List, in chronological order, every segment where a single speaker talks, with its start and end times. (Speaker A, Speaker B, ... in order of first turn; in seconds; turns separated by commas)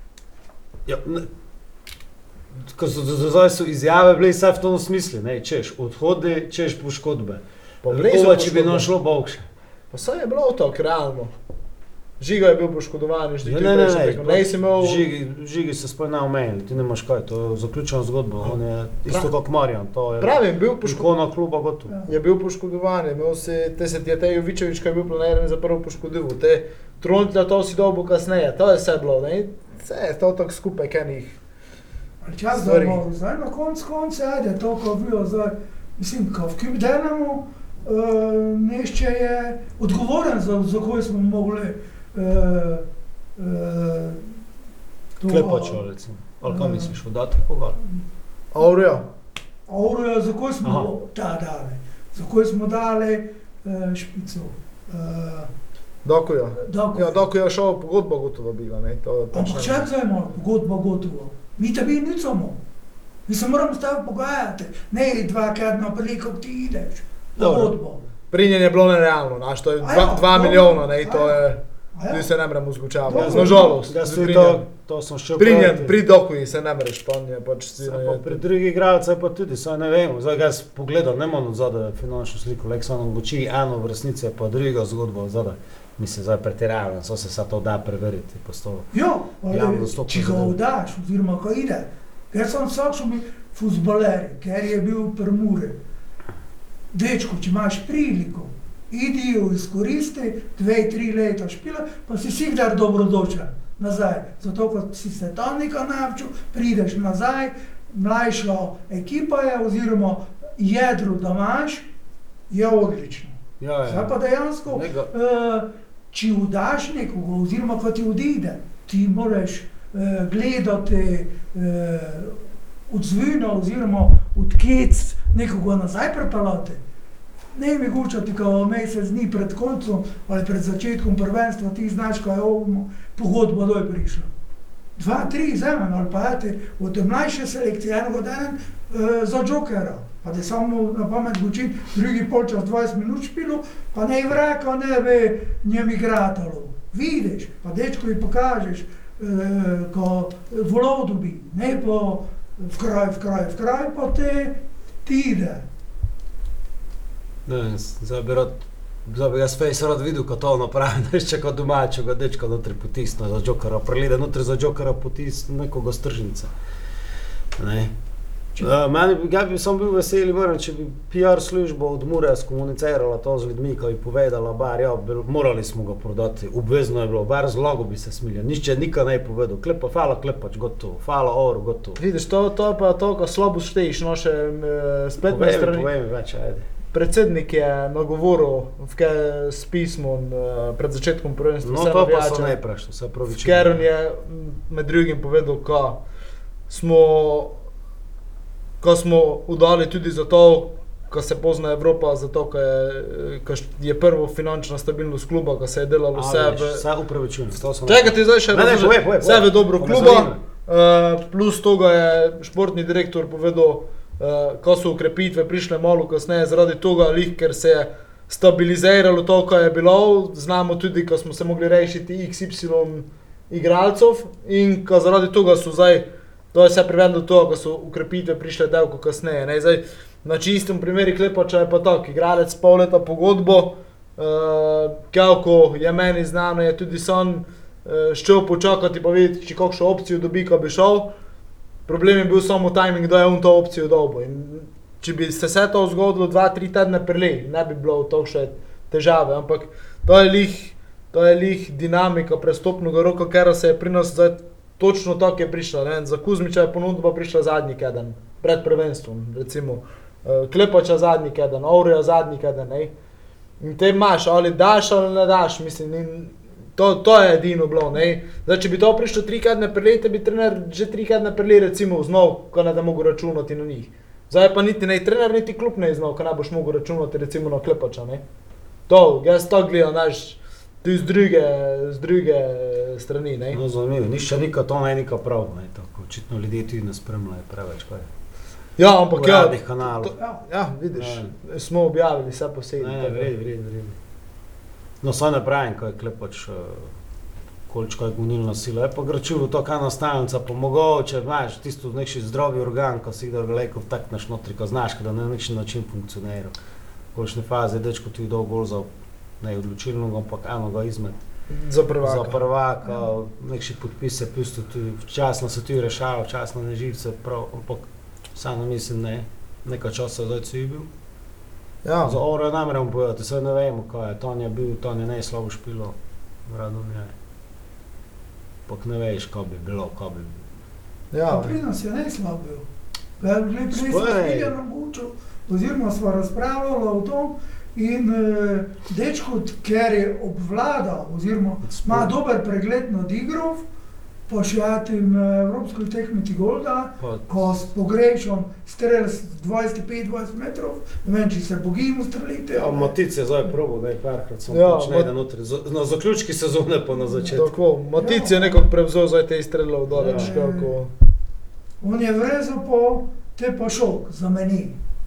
Speaker A: 0.8-1.3, Speaker A: 2.7-9.4, Speaker B: 7.8-8.9, Speaker B: 9.9-11.3, Speaker B: 12.2-15.0, Speaker A: 13.4-21.9, Speaker B: 20.2-21.1, Speaker B: 22.1-31.4, Speaker C: 32.2-42.9, Speaker B: 32.5-33.0, Speaker C: 43.4-44.3, Speaker C: 45.2-45.8, Speaker A: 45.3-47.8, Speaker C: 46.5-47.0, Speaker B: 48.5-49.0, Speaker C: 49.7-55.5, Speaker A: 50.6-50.9, Speaker B: 56.0-59.9, Speaker C: 56.6-57.2, Speaker C: 59.3-62.6, Speaker C: 63.3-68.0, Speaker A: 67.4-67.7, Speaker B: 68.3-71.6, Speaker C: 69.8-72.3, Speaker B: 72.1-74.7, Speaker C: 73.1-73.8, Speaker A: 73.1-76.0, Speaker B: 75.4-78.4, Speaker A: 77.8-88.9, Speaker C: 88.9-95.8, Speaker A: 89.5-90.6, Speaker C: 96.9-111.8, Speaker C: 112.5-126.8, Speaker A: 113.6-114.1, Speaker A: 114.7-115.1, Speaker C: 127.5-134.3, Speaker C: 135.0-155.7, Speaker A: 157.4-166.5, Speaker A: 167.6-167.9, Speaker A: 168.6-182.0, Speaker B: 182.0-185.9, Speaker A: 185.2-186.7, Speaker B: 186.9-192.6, Speaker A: 191.6-193.8, Speaker B: 193.3-196.0, Speaker B: 196.7-197.6, Speaker B: 198.8-206.8, Speaker A: 206.1-210.4, Speaker B: 207.8-241.1, Speaker B: 241.9-262.9, Speaker B: 263.6-278.2, Speaker B: 278.9-283.6, Speaker A: 283.5-288.1, Speaker B: 288.8-293.3, Speaker A: 289.1-290.1, Speaker A: 290.9-291.3, Speaker A: 292.8-293.9, Speaker A: 295.0-296.9, Speaker A: 297.7-306.5, Speaker A: 307.1-308.9, Speaker A: 309.4-311.2, Speaker B: 311.5-312.4, Speaker A: 312.0-320.9, Speaker B: 321.8-322.2, Speaker A: 322.0-327.1, Speaker A: 328.7-330.4, Speaker B: 331.1-331.6, Speaker C: 331.3-332.7, Speaker C: 333.2-343.6, Speaker A: 333.7-334.5, Speaker A: 341.6-342.1, Speaker C: 344.3-352.9, Speaker A: 347.0-347.4, Speaker A: 352.5-357.5, Speaker B: 354.5-355.1, Speaker B: 357.2-360.9, Speaker C: 358.0-358.7, Speaker A: 359.9-360.3, Speaker C: 359.9-360.7, Speaker C: 361.8-364.8